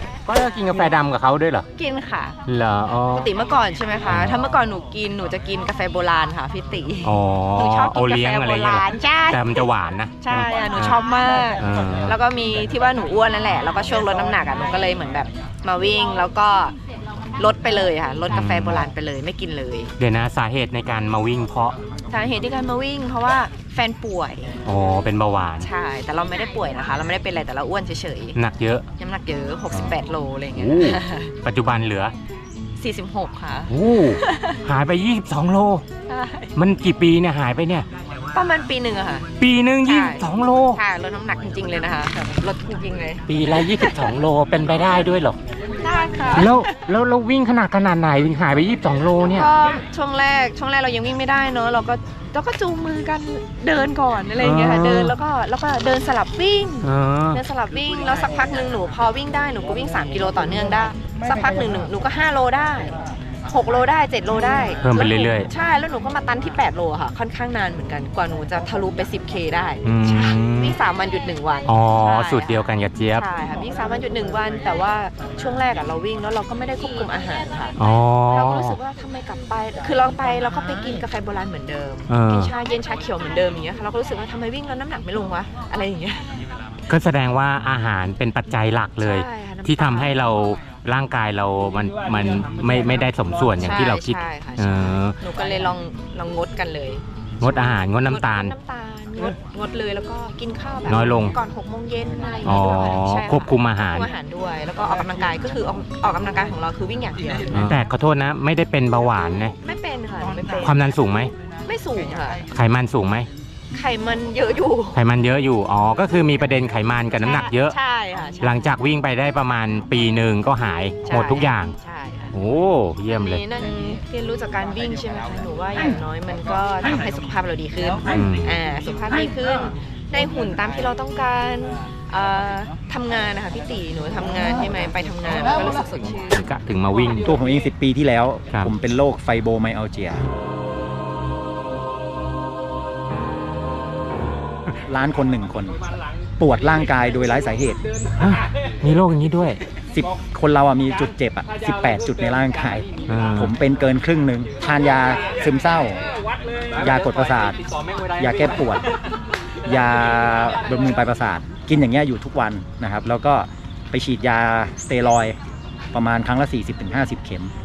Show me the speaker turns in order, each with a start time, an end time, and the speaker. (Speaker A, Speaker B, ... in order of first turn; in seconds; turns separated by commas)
Speaker A: 0.2-1.7, Speaker B: 1.8-2.4, Speaker A: 2.5-3.3, Speaker B: 3.1-9.7, Speaker A: 4.0-4.4, Speaker A: 7.0-11.0, Speaker B: 10.2-16.8, Speaker A: 11.6-12.2, Speaker B: 17.4-19.9, Speaker A: 18.3-18.9, Speaker A: 20.0-21.8, Speaker B: 22.1-24.6, Speaker A: 24.6-25.7, Speaker B: 25.6-28.4, Speaker A: 28.3-28.9, Speaker B: 29.0-31.3, Speaker A: 30.5-32.1, Speaker B: 32.8-34.6, Speaker A: 33.7-35.8, Speaker B: 36.1-36.5, Speaker A: 36.5-37.9, Speaker B: 38.3-39.3, Speaker A: 39.4-40.8, Speaker B: 39.9-44.1, Speaker A: 43.3-45.4, Speaker B: 45.8-46.7, Speaker A: 46.3-49.5, Speaker B: 49.3-62.9, Speaker A: 54.4-55.1, Speaker A: 56.8-57.4, Speaker B: 63.5-72.6, Speaker A: 64.8-65.5, Speaker A: 69.8-70.8, Speaker A: 71.7-73.2, Speaker B: 73.1-77.7, Speaker A: 77.8-78.8, Speaker B: 78.3-86.2, Speaker A: 82.1-82.5, Speaker A: 86.9-95.1, Speaker B: 89.0-90.2, Speaker B: 93.6-107.8, Speaker A: 97.4-98.5, Speaker A: 100.9-101.3, Speaker A: 102.4-104.1, Speaker A: 107.5-109.5, Speaker B: 109.6-110.8, Speaker A: 110.6-111.3, Speaker B: 111.6-112.4, Speaker A: 112.5-113.3, Speaker B: 113.7-115.0, Speaker A: 114.9-117.7, Speaker B: 117.2-118.7, Speaker A: 118.4-121.8, Speaker B: 121.0-122.3, Speaker A: 122.3-123.4, Speaker B: 123.1-136.4, Speaker A: 128.1-128.6, Speaker A: 136.3-137.3, Speaker C: 137.2-140.2, Speaker C: 144.9-145.8, Speaker C: 146.4-147.8, Speaker A: 148.2-149.6, Speaker C: 149.9-156.0, Speaker A: 153.1-153.5, Speaker C: 156.8-157.6, Speaker C: 158.2-158.9, Speaker C: 159.6-165.3, Speaker C: 165.9-167.5